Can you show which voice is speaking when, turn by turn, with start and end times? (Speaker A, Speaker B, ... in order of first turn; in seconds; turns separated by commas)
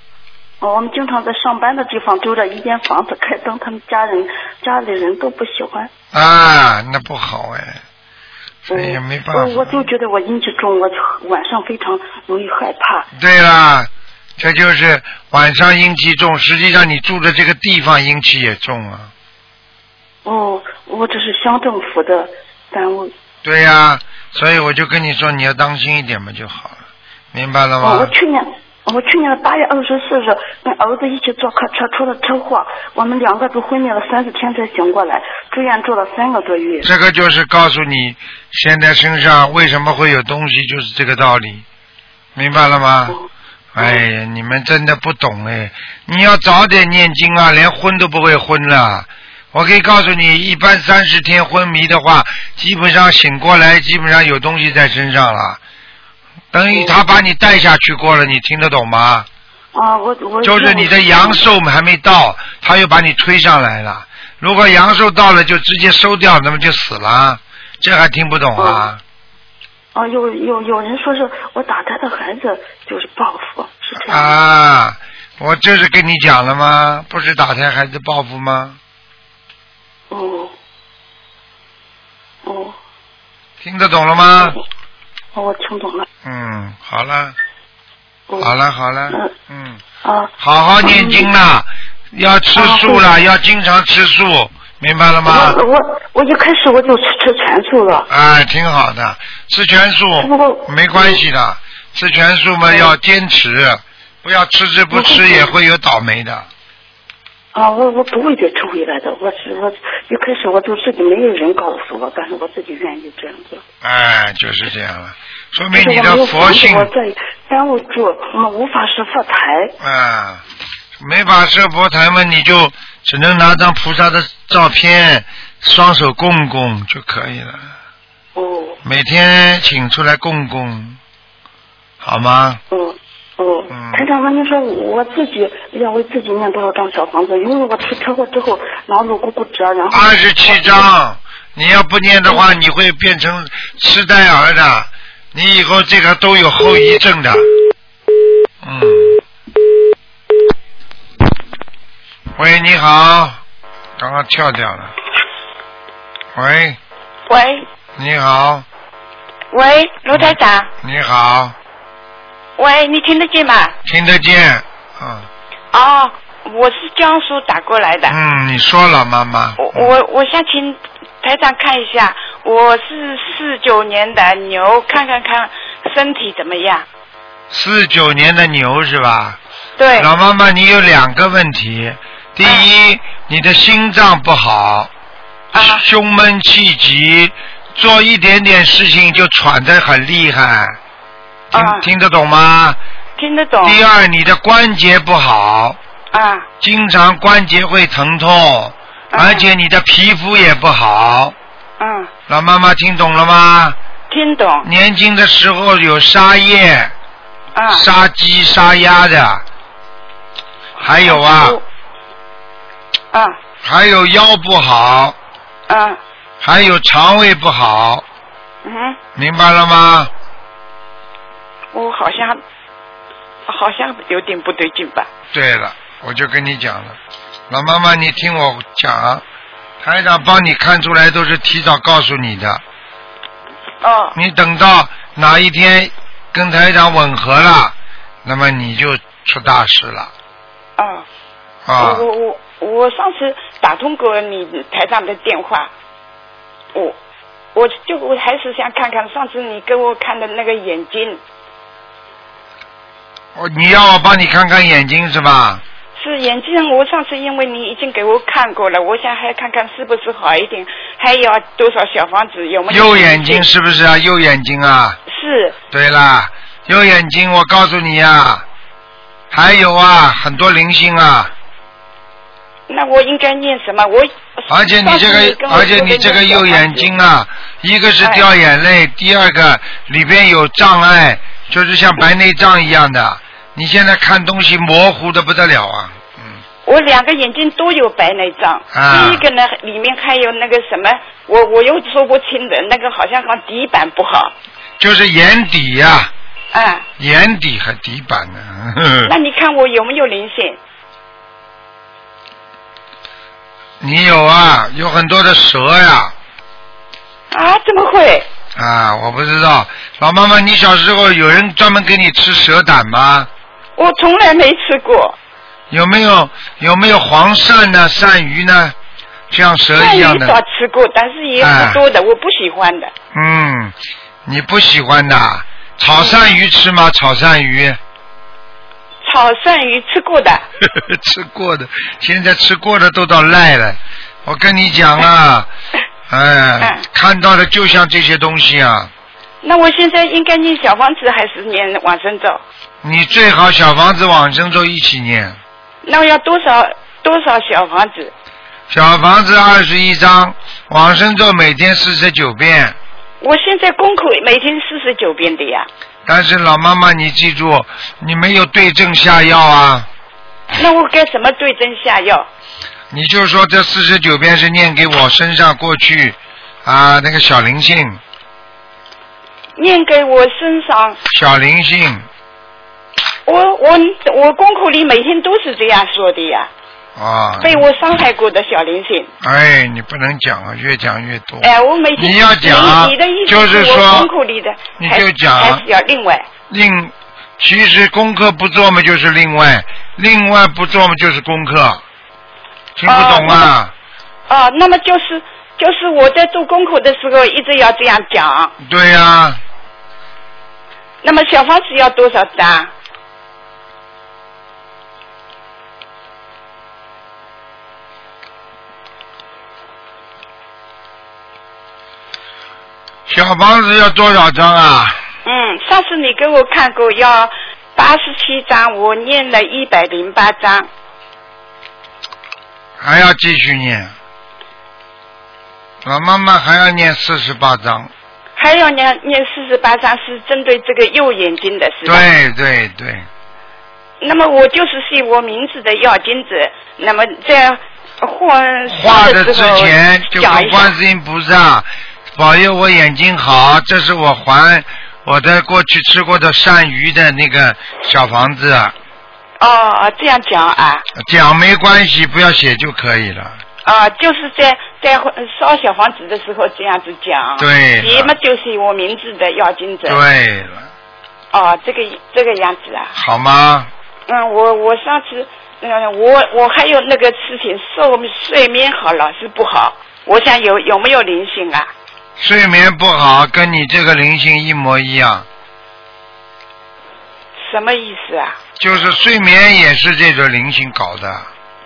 Speaker A: 0.6-5.9, Speaker B: 6.1-7.8, Speaker B: 8.7-9.8, Speaker A: 8.7-13.1, Speaker B: 13.1-19.1, Speaker A: 20.2-23.1, Speaker B: 23.4-26.8, Speaker B: 27.3-28.1, Speaker A: 27.8-36.9, Speaker B: 36.8-41.6, Speaker B: 42.3-43.2, Speaker A: 43.1-44.0, Speaker B: 43.7-55.6, Speaker B: 56.5-59.3, Speaker A: 56.7-57.0, Speaker A: 59.7-61.4, Speaker B: 60.4-69.0, Speaker A: 68.5-68.9, Speaker A: 69.9-74.3, Speaker B: 74.0-78.8, Speaker A: 80.1-80.5, Speaker A: 82.4-82.8, Speaker B: 83.6-84.6, Speaker A: 85.3-86.1, Speaker B: 86.2-87.3, Speaker B: 88.4-89.8, Speaker A: 90.0-91.3, Speaker B: 90.4-95.6, Speaker A: 92.5-93.2, Speaker A: 95.2-98.1, Speaker B: 98.1-106.5, Speaker A: 100.2-101.2, Speaker A: 102.7-102.9, Speaker A: 104.9-105.5, Speaker A: 107.5-113.6, Speaker B: 113.8-116.9, Speaker A: 115.7-119.7, Speaker B: 119.8-120.4, Speaker B: 121.0-127.7, Speaker A: 128.3-128.8, Speaker B: 128.8-131.0, Speaker B: 132.0-132.6, Speaker A: 132.7-140.8, Speaker B: 133.7-134.1, Speaker B: 139.9-147.5, Speaker B: 148.6-149.2, Speaker B: 152.3-153.4, Speaker B: 154.0-154.9, Speaker B: 156.3-156.8, Speaker C: 157.3-157.7, Speaker B: 158.0-158.7, Speaker C: 159.5-160.7, Speaker B: 160.1-161.5, Speaker C: 162.6-163.7, Speaker B: 163.8-165.3, Speaker C: 165.7-168.2, Speaker B: 168.1-169.9, Speaker C: 169.6-176.8, Speaker B: 177.5-179.4, Speaker C: 179.8-180.1, Speaker B: 179.9-184.9, Speaker C: 185.5-185.8, Speaker B: 185.6-190.8, Speaker C: 191.5-191.9, Speaker B: 191.5-192.8, Speaker C: 193.2-193.8, Speaker B: 193.6-195.8, Speaker C: 196.1-196.5, Speaker B: 196.6-201.3, Speaker C: 199.1-199.5, Speaker C: 201.8-202.1, Speaker B: 202.3-203.8, Speaker C: 204.1-204.7, Speaker B: 204.6-206.9, Speaker C: 207.5-207.9, Speaker B: 207.7-209.4, Speaker C: 210.8-211.6, Speaker B: 210.8-211.6, Speaker C: 213.1-213.4, Speaker B: 213.6-215.2, Speaker C: 215.7-216.0, Speaker B: 216.4-218.0, Speaker C: 218.6-219.0, Speaker B: 219.2-220.1, Speaker C: 221.7-222.4, Speaker C: 223.5-225.1, Speaker B: 225.3-227.0, Speaker B: 227.5-229.2, Speaker B: 229.8-232.6, Speaker C: 233.8-234.2, Speaker B: 234.1-240.1, Speaker C: 240.8-241.1, Speaker B: 241.7-242.0, Speaker C: 241.8-245.7, Speaker C: 247.5-251.2, Speaker B: 253.3-255.6, Speaker C: 255.9-263.5, Speaker B: 262.7-265.0, Speaker C: 265.1-265.6, Speaker B: 265.7-268.4, Speaker B: 269.3-271.3, Speaker C: 272.7-276.9, Speaker B: 274.5-286.4, Speaker C: 278.0-278.3, Speaker C: 286.6-294.3, Speaker B: 288.7-289.2, Speaker B: 294.8-296.1, Speaker C: 296.5-296.9, Speaker B: 297.0-299.1, Speaker C: 299.0-300.6, Speaker B: 303.8-306.1, Speaker C: 307.3-308.3, Speaker B: 308.5-313.3, Speaker C: 313.8-315.2, Speaker B: 315.7-318.8, Speaker B: 319.3-320.4, Speaker C: 319.8-322.9, Speaker B: 321.4-321.8, Speaker B: 323.1-327.8, Speaker C: 325.9-326.3, Speaker C: 329.0-330.4, Speaker B: 330.6-335.5, Speaker B: 336.1-338.9, Speaker C: 339.4-342.4, Speaker B: 342.8-345.4, Speaker C: 345.8-348.1, Speaker B: 348.7-352.8, Speaker C: 353.2-355.7, Speaker B: 356.1-359.9, Speaker C: 360.5-362.3, Speaker B: 362.9-368.0, Speaker C: 369.6-371.0, Speaker B: 371.1-372.1, Speaker C: 373.2-376.5, Speaker B: 376.9-377.6, Speaker C: 377.4-379.1, Speaker B: 379.2-384.1, Speaker C: 381.4-386.3, Speaker B: 384.8-385.6, Speaker B: 386.5-391.8, Speaker B: 392.8-393.7, Speaker C: 392.9-393.5, Speaker C: 394.3-398.5, Speaker B: 398.6-399.4, Speaker C: 401.0-402.7, Speaker B: 413.1-415.0, Speaker C: 415.2-420.7, Speaker B: 422.8-423.9, Speaker B: 425.8-427.9, Speaker C: 428.4-432.0, Speaker B: 431.8-433.1, Speaker C: 434.0-440.7, Speaker B: 438.7-448.7, Speaker C: 449.4-450.9, Speaker B: 450.9-453.4, Speaker C: 453.6-460.0, Speaker B: 457.4-458.1, Speaker B: 459.9-460.7, Speaker C: 461.3-462.9, Speaker B: 462.9-463.7, Speaker C: 464.1-471.7, Speaker B: 472.2-475.2, Speaker C: 477.4-478.4, Speaker B: 478.6-481.3